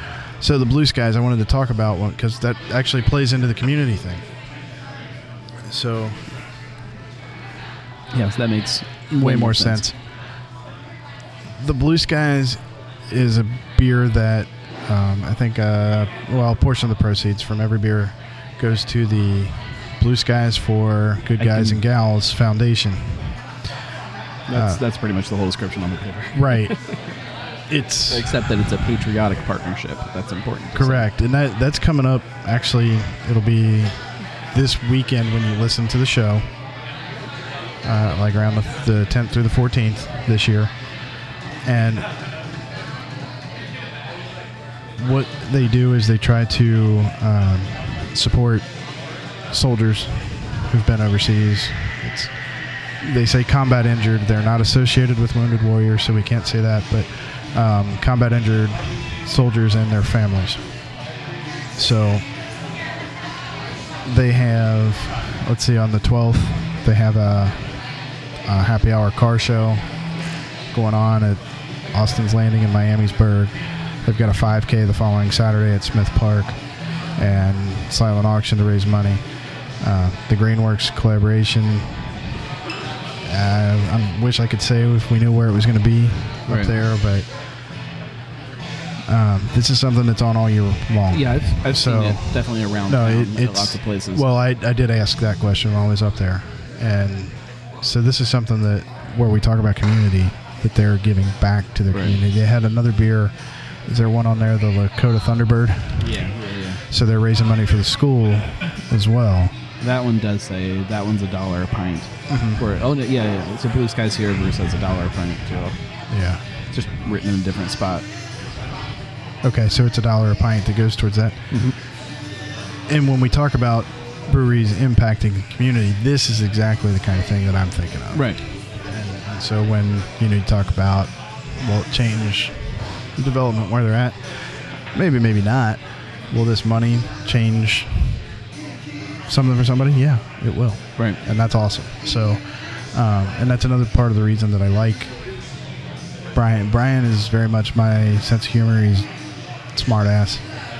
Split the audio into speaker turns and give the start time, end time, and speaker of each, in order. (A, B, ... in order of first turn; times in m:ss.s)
0:00.4-0:04.2 A
0:05.6-0:06.2 A
0:08.1-0:09.8 B
0:09.2-0:09.9 A
0:11.6-0:23.4 A
0:21.4-0:21.8 B
0:24.5-0:27.0 B
0:24.5-0:24.8 A
0:26.3-0:26.7 A
0:27.7-0:28.3 A
0:28.1-0:31.0 B
0:30.7-0:34.0 A
0:34.5-0:36.4 A
0:37.8-0:40.7 A
0:41.6-0:42.1 A
0:45.0-0:48.7 A
0:49.5-0:52.3 A
0:53.0-1:00.6 A
1:01.8-1:02.2 A
1:04.0-1:07.6 A
1:08.4-1:09.8 A
1:10.7-1:13.5 A
1:14.0-1:16.6 A
1:17.2-1:19.2 A
1:19.8-1:22.1 A
1:23.2-1:27.2 A
1:29.1-1:43.3 A
1:31.1-1:34.2 B
1:41.9-1:42.2 B
1:43.9-1:46.2 A
1:46.0-1:46.8 B
1:46.9-1:49.6 A
1:49.8-1:55.8 B
1:52.3-1:52.6 A
1:56.1-1:56.4 A
1:56.7-1:58.0 B
1:59.4-2:01.5 A
2:02.9-2:14.4 A
2:08.1-2:08.4 B
2:14.9-2:18.2 A
2:19.3-2:25.1 A
2:26.3-2:29.1 A
2:29.7-2:30.5 A